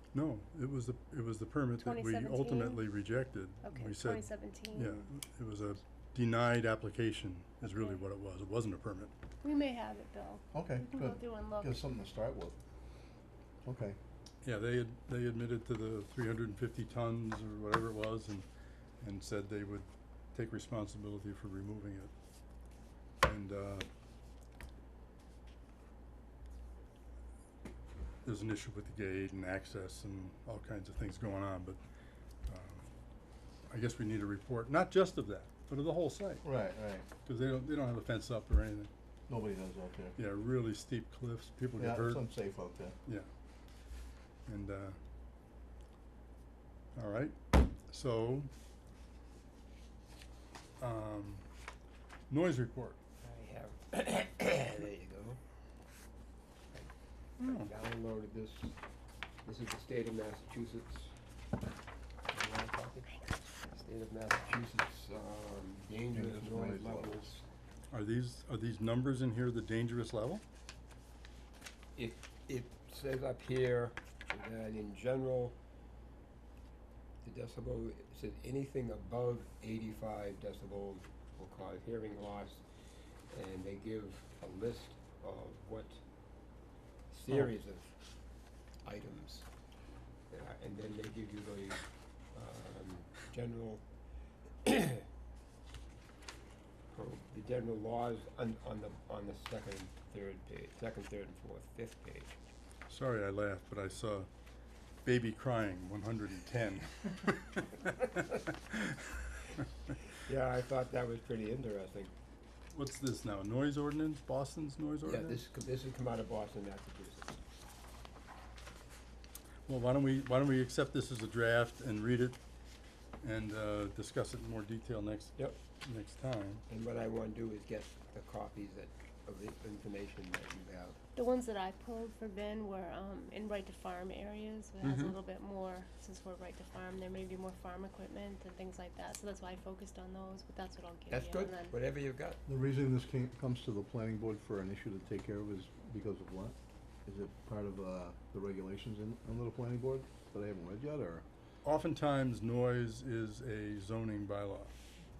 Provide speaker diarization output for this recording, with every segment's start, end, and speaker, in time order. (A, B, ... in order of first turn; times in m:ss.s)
0:00.1-0:09.1 A
0:01.8-0:02.9 B
0:03.6-0:05.0 B
0:09.4-0:11.8 B
0:10.5-0:12.6 C
0:13.6-0:14.0 C
0:14.4-0:18.4 A
0:19.0-0:22.1 A
0:23.2-0:23.9 A
0:28.2-0:31.8 A
0:32.5-0:32.8 A
0:33.7-0:36.4 A
0:36.4-0:37.1 C
0:37.2-0:38.9 A
0:39.3-0:40.2 C
0:40.2-0:42.2 A
0:41.8-0:43.0 C
0:44.5-0:45.0 A
0:47.0-0:48.5 A
0:50.8-0:51.4 A
0:52.3-0:53.0 A
0:53.2-0:55.4 D
0:56.7-0:58.7 D
0:57.4-0:57.7 A
0:59.4-1:01.1 D
1:02.3-1:07.4 D
1:06.1-1:07.3 C
1:07.9-1:10.4 A
1:12.0-1:15.5 D
1:17.2-1:22.6 D
1:23.3-1:26.0 D
1:27.1-1:27.9 D
1:28.8-1:29.5 D
1:30.3-1:33.8 D
1:34.6-1:35.0 D
1:36.9-1:42.4 D
1:42.9-1:44.3 A
1:45.0-1:49.0 A
1:50.2-1:52.1 D
1:52.7-1:55.4 A
1:55.0-1:57.4 D
1:59.7-2:02.4 A
2:03.2-2:06.6 A
2:06.7-2:11.0 D
2:11.2-2:21.7 B
2:14.8-2:15.2 D
2:21.1-2:22.4 D
2:22.4-2:26.5 C
2:27.0-2:31.2 C
2:31.6-2:34.7 A